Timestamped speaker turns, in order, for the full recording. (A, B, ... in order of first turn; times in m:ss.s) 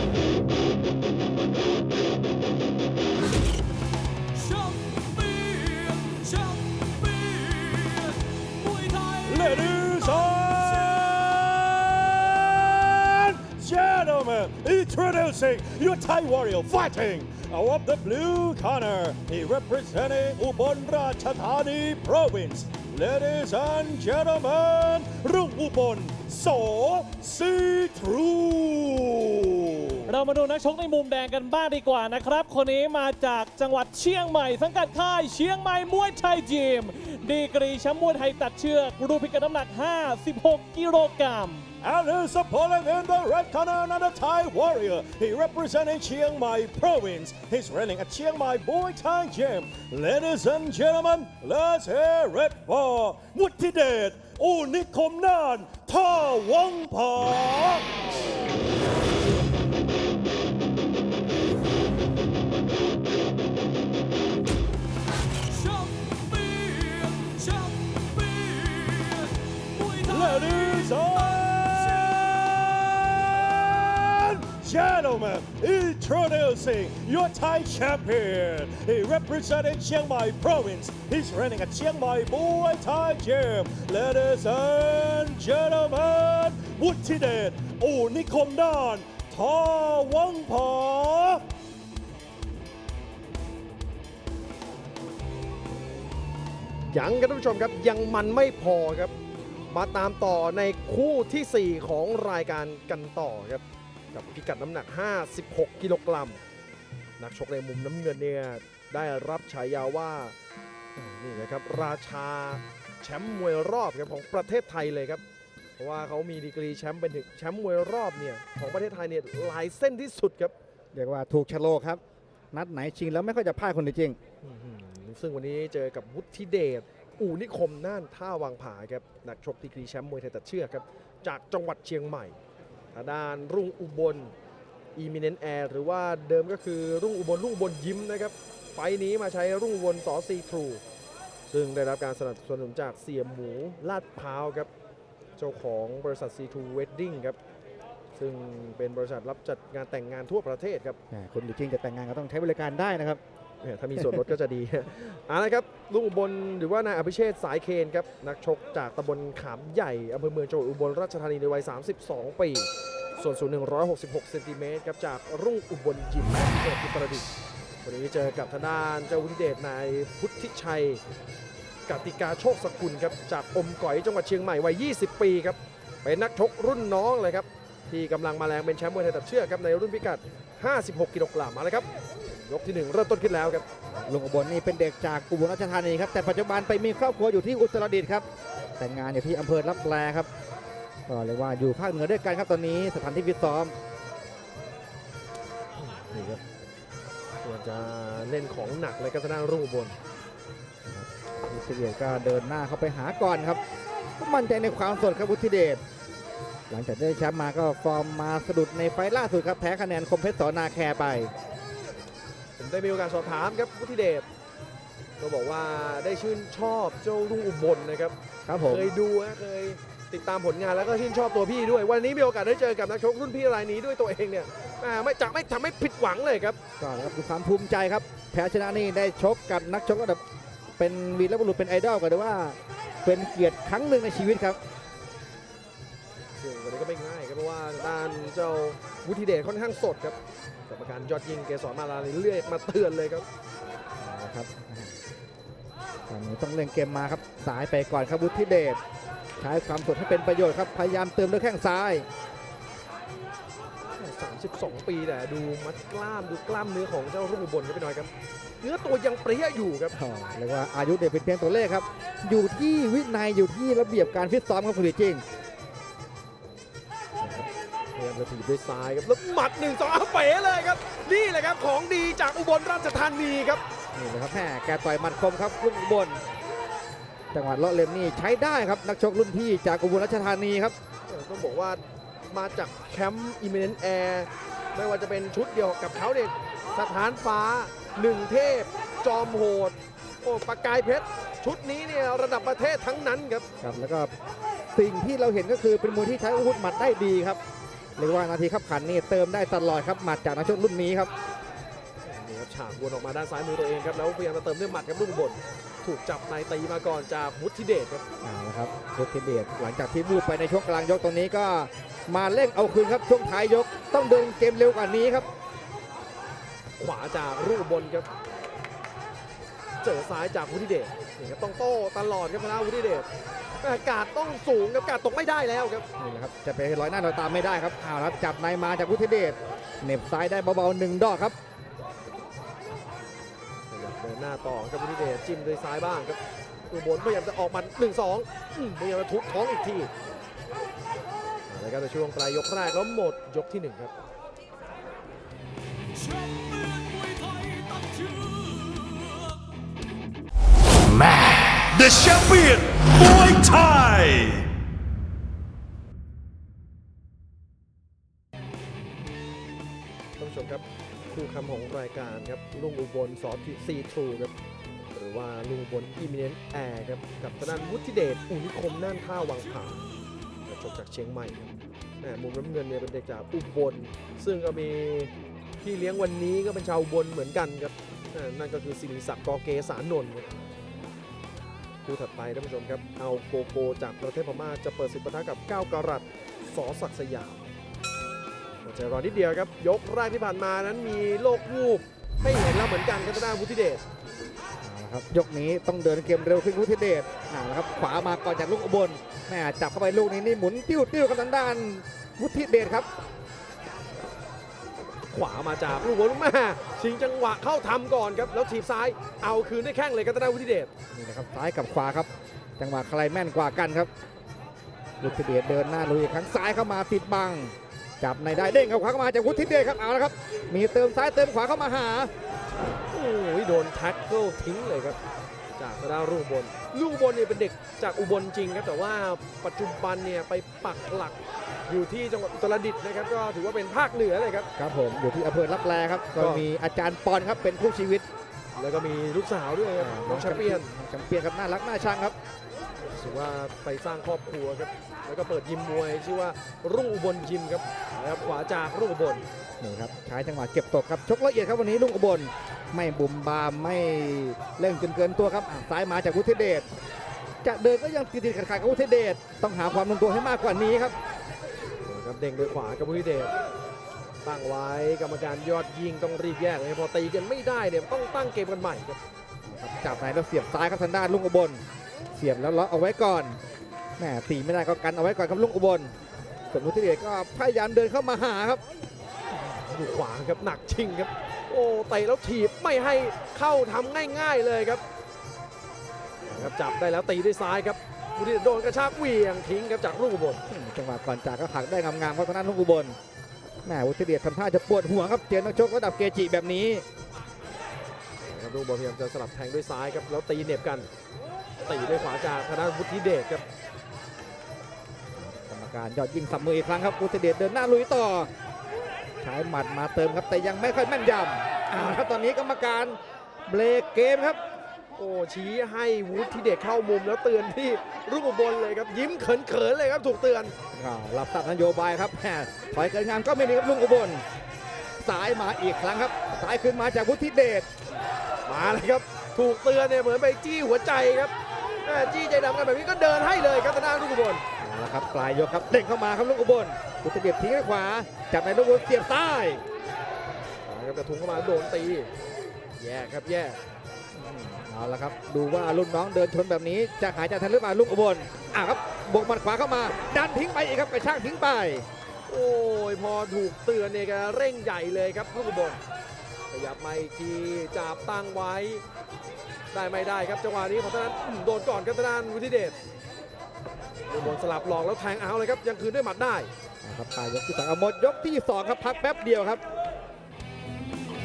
0:04.4-0:10.4 A
0:09.2-0:30.1 B
0:30.1-0:41.7 A
0:41.8-0:57.9 B
1:05.6-1:11.0 A
1:08.7-1:09.0 B
1:10.0-1:31.4 B
1:36.9-1:39.1 C
1:39.7-1:46.4 C
1:47.2-1:50.4 C
1:51.0-1:55.2 C
1:55.8-2:00.6 C
2:00.9-2:02.0 D
2:02.5-2:04.2 D
2:04.4-2:12.4 C
2:12.9-2:14.3 C
2:15.0-2:20.8 C
2:21.5-2:24.7 C
2:25.4-2:27.4 C
2:28.2-2:31.0 C
2:31.1-2:33.2 D
2:33.6-2:47.3 C
2:47.8-2:51.0 C
2:51.9-3:03.7 C
3:03.9-3:08.2 D
3:08.8-3:10.3 D
3:11.1-3:13.8 D
3:15.8-3:16.4 C
3:17.4-3:20.0 C
3:20.9-3:23.6 D
3:24.2-3:25.8 D
3:26.7-3:31.3 D
3:32.6-3:34.3 C
3:35.2-3:38.2 C
3:38.5-3:38.9 D
3:38.7-3:46.6 C
3:46.8-3:50.2 D
3:50.8-3:54.6 D
3:56.4-4:03.2 C
4:04.0-4:05.0 D
4:06.1-4:08.8 D
4:09.4-4:12.1 D
4:14.0-4:18.1 C
4:18.6-4:20.0 C
4:19.9-4:25.2 D
4:27.2-4:27.5 D
4:28.0-4:33.6 C
4:34.0-4:36.2 D
4:37.3-4:40.8 D
4:41.1-4:41.8 C
4:42.3-4:53.5 C
4:53.6-4:54.1 D
4:54.8-4:57.4 D
4:58.0-5:01.1 D
5:02.0-5:08.0 C
5:08.2-5:15.3 D
5:16.8-5:18.1 C
5:19.8-5:23.1 C
5:23.6-5:25.8 C
5:26.0-5:31.4 D
5:33.7-5:39.9 C
5:41.5-5:43.9 C
5:46.1-5:49.1 A
5:50.9-5:54.4 B
6:00.2-6:04.3 C
6:04.9-6:09.9 C
6:10.5-6:20.3 C
6:21.8-6:27.5 C
6:28.6-6:33.8 C
6:34.6-6:42.9 D
6:45.1-6:50.7 C
6:50.9-6:53.9 D
6:55.0-7:02.1 D
7:02.9-7:05.0 C
7:05.6-7:11.2 C
7:11.7-7:14.5 C
7:14.6-7:18.0 D
7:16.2-7:16.4 C
7:18.6-7:20.7 C
7:19.8-7:22.2 D
7:22.9-7:29.2 C
7:29.6-7:36.7 D
7:37.4-7:41.0 D
7:41.9-7:43.3 C
7:44.2-7:49.0 C
7:49.4-7:51.6 D
7:52.1-7:53.4 D
7:54.0-7:55.9 D
7:56.5-7:58.6 D
7:59.3-8:04.8 C
8:06.3-8:10.4 C
8:10.5-8:13.0 D
8:13.6-8:16.8 D
8:18.3-8:20.9 C
8:21.7-8:23.4 C
8:25.2-8:28.3 D
8:29.2-8:34.4 D
8:35.0-8:40.5 C
8:40.7-8:44.2 D
8:45.0-8:47.7 D
8:48.4-8:51.3 C
8:51.8-8:54.4 C
8:54.6-8:59.6 D
9:00.7-9:02.1 C
9:02.8-9:03.6 C
9:04.2-9:04.6 C
9:04.6-9:11.9 D
9:12.3-9:15.8 C
9:16.5-9:18.8 C
9:19.7-9:22.8 C
9:24.1-9:26.5 C
9:26.8-9:29.6 D